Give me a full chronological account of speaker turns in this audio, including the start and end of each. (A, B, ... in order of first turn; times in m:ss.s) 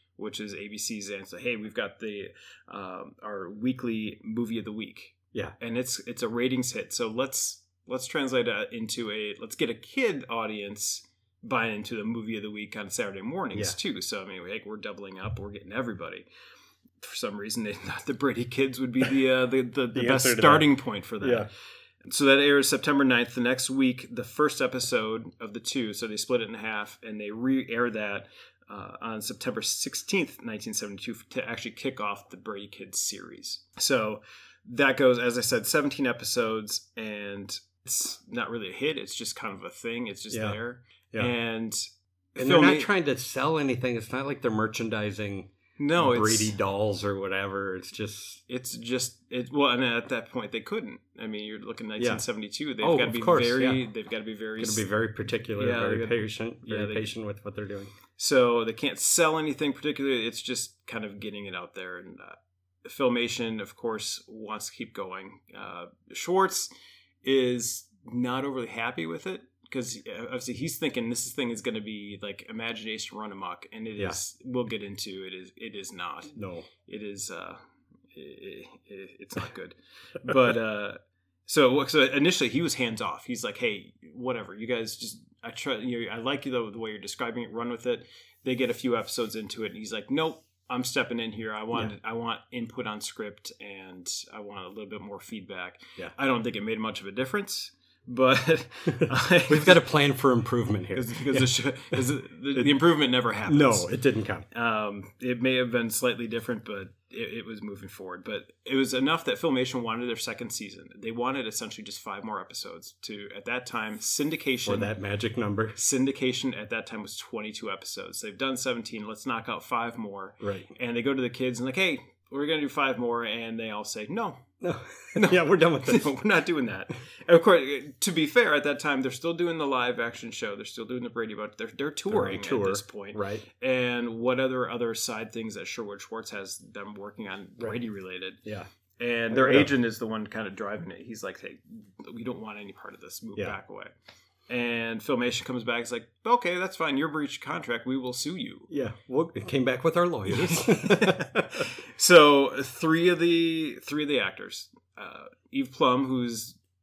0:00.2-0:16.2 A
0:17.0-0:21.5 A
0:19.9-0:21.5 B
0:22.0-0:42.9 A
0:40.3-0:40.6 B
0:42.4-0:48.4 B
0:45.8-0:46.5 A
0:48.5-0:54.8 A
0:52.0-0:52.2 B
0:52.8-0:53.8 B
0:54.6-0:57.9 B
0:55.5-0:57.1 A
0:58.2-1:06.7 A
1:07.2-1:17.6 A
1:16.3-1:16.7 B
1:18.1-1:39.8 A
1:38.9-1:42.0 B
1:40.9-1:43.9 A
1:43.5-1:44.4 B
1:44.5-1:54.9 A
1:54.6-1:55.8 B
1:55.8-2:04.4 A
2:00.4-2:00.7 B
2:04.6-2:06.1 B
2:05.1-2:18.4 A
2:12.1-2:13.4 B
2:19.0-2:23.9 A
2:19.3-2:19.7 B
2:24.5-2:28.7 A
2:28.7-2:31.6 B
2:30.3-2:36.6 A